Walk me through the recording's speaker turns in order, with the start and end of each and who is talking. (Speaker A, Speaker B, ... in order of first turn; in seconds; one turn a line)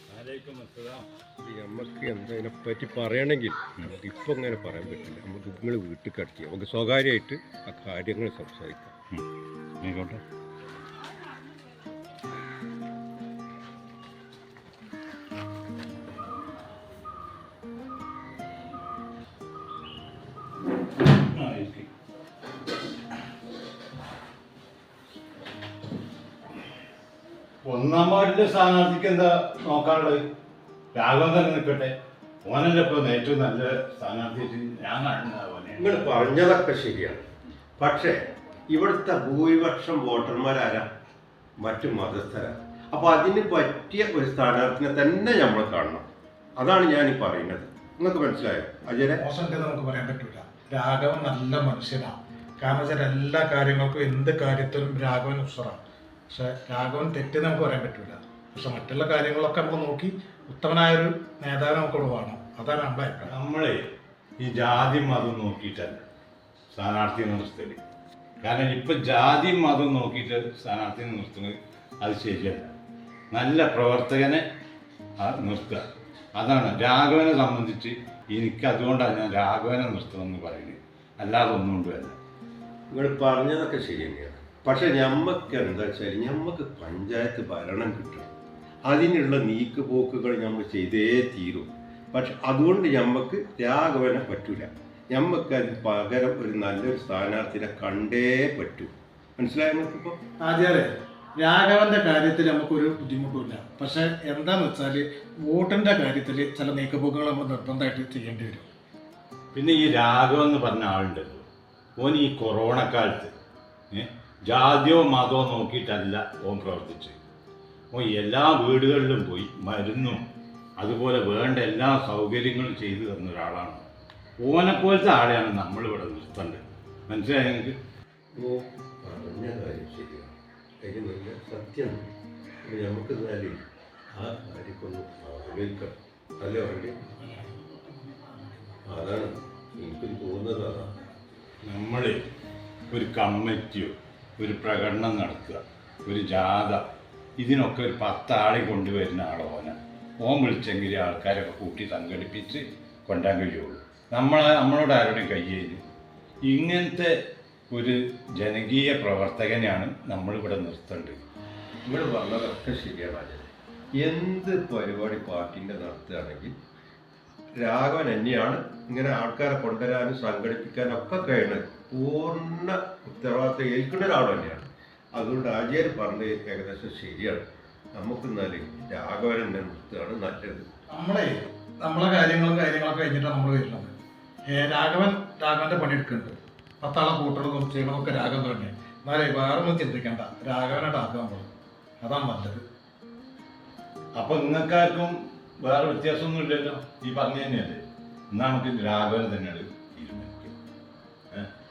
Speaker A: 0.1-1.1
Speaker B: 1.4-8.9
Speaker A: 9.8-10.2
Speaker A: 21.3-21.9
Speaker A: 27.6-30.2
Speaker A: 30.9-36.0
Speaker B: 35.8-37.2
Speaker B: 37.8-40.9
Speaker B: 41.6-49.2
Speaker C: 49.2-63.3
Speaker A: 63.2-63.9
Speaker A: 64.4-66.0
Speaker A: 66.7-67.8
Speaker A: 68.4-72.7
Speaker A: 73.3-74.4
Speaker A: 75.2-82.2
Speaker B: 82.9-88.3
Speaker B: 88.9-100.2
Speaker C: 100.4-108.7
Speaker A: 109.5-111.5
Speaker A: 112.0-113.3
Speaker A: 113.9-117.2
Speaker A: 117.9-120.2
Speaker A: 120.8-123.9
Speaker A: 124.4-127.8
Speaker B: 128.3-132.1
Speaker B: 132.6-133.6
Speaker B: 134.1-137.0
Speaker B: 138.8-141.0
Speaker A: 141.6-142.2
Speaker A: 142.9-155.8
Speaker A: 156.5-157.1
Speaker A: 157.7-161.2
Speaker B: 161.8-166.5
Speaker B: 167.6-177.4
Speaker B: 178.0-180.7
Speaker C: 180.9-183.9
Speaker C: 184.5-192.6
Speaker A: 194.2-197.8
Speaker A: 198.3-200.5